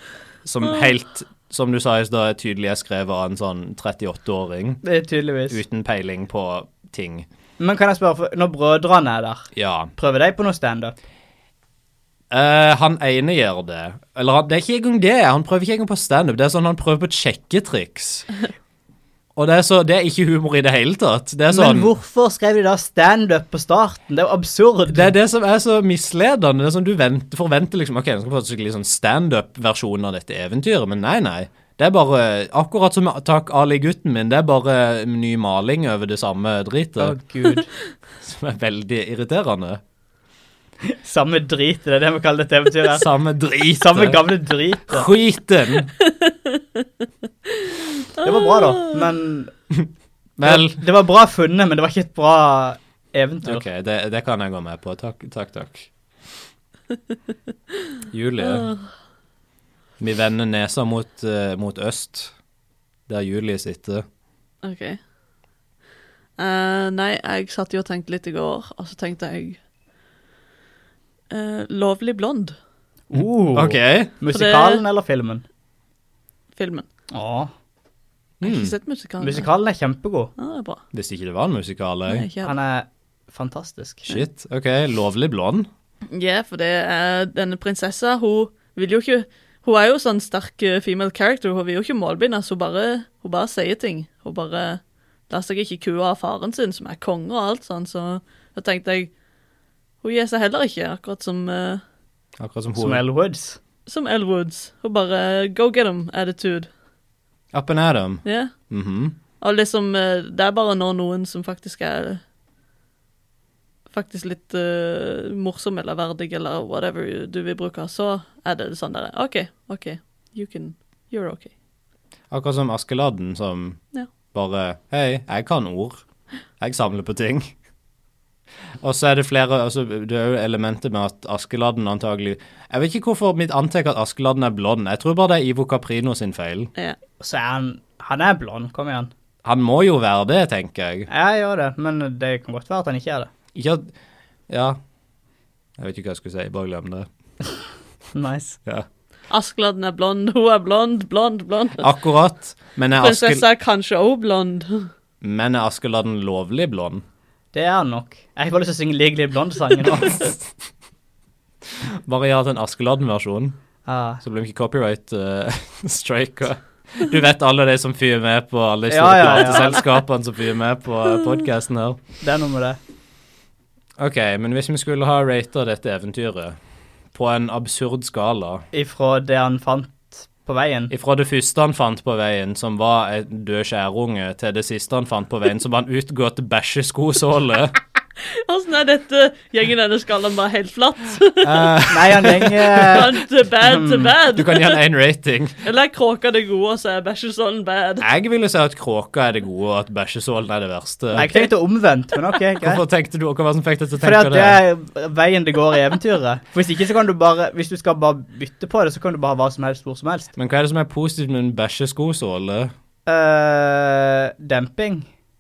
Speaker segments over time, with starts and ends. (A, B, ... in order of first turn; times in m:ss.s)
0:00.4-0:04.8 A
0:04.8-0:05.6 B
0:05.5-0:07.2 A
0:07.6-0:10.9 B
0:09.5-0:09.9 A
0:12.3-0:18.3 A
0:19.4-0:21.9 A
0:21.5-0:25.1 B
0:24.9-0:37.2 A
0:37.0-0:37.7 B
0:38.2-0:39.8 A
0:40.8-0:43.1 B
0:42.9-0:45.9 A
0:43.8-0:45.1 B
0:46.0-0:46.8 C
0:47.5-0:49.0 C
0:48.2-0:49.5 B
0:50.4-0:50.8 A
0:50.4-0:53.6 B
0:53.4-0:55.9 A
0:58.1-0:58.7 A
0:58.4-0:58.8 C
1:00.0-1:02.3 A
1:03.1-1:04.0 A
1:04.6-1:05.0 C
1:06.4-1:09.6 C
1:11.3-1:12.6 C
1:13.1-1:15.4 B
1:13.5-1:14.1 A
1:14.3-1:14.8 C
1:16.6-1:16.9 C
1:17.1-1:17.5 B
1:18.4-1:18.7 A
1:18.4-1:19.5 C
1:19.2-1:20.3 B
1:20.4-1:20.8 C
1:20.9-1:22.2 A
1:22.1-1:22.6 C
1:22.4-1:24.2 B
1:24.1-1:25.7 A
1:26.1-1:39.1 C
1:40.0-1:41.8 C
1:42.4-1:43.0 A
1:42.8-1:43.6 B
1:43.8-1:46.7 C
1:47.5-1:49.2 A
1:48.2-1:48.5 C
1:49.4-1:52.2 C
1:53.9-2:01.5 C
2:02.3-2:03.8 A
2:04.3-2:06.0 A
2:06.6-2:07.6 A
2:08.8-2:16.7 A
2:17.2-2:19.1 B
2:19.4-2:21.1 A
2:21.1-2:23.3 B
2:23.5-2:23.9 A
2:24.5-2:24.8 A
2:25.8-2:27.1 A
2:28.1-2:28.6 B
2:29.3-2:31.8 C
2:31.8-2:33.4 A
2:33.0-2:34.9 C
2:35.2-2:37.0 A
2:37.5-2:40.3 B
2:41.8-2:43.6 A
2:43.8-2:44.2 B
2:44.2-2:52.0 A
2:48.9-2:49.8 B
2:52.2-2:52.8 B
2:54.0-2:56.6 A
2:57.1-2:58.6 A
2:58.7-3:00.9 B
3:00.9-3:07.8 A
3:08.3-3:11.8 C
3:11.4-3:13.0 A
3:11.9-3:14.1 B
3:12.8-3:14.8 C
3:14.3-3:15.6 A
3:15.6-3:18.0 C
3:18.0-3:21.4 A
3:21.1-3:22.8 B
3:22.6-3:24.6 A
3:24.0-3:30.3 B
3:30.4-3:32.7 A
3:33.0-3:35.1 B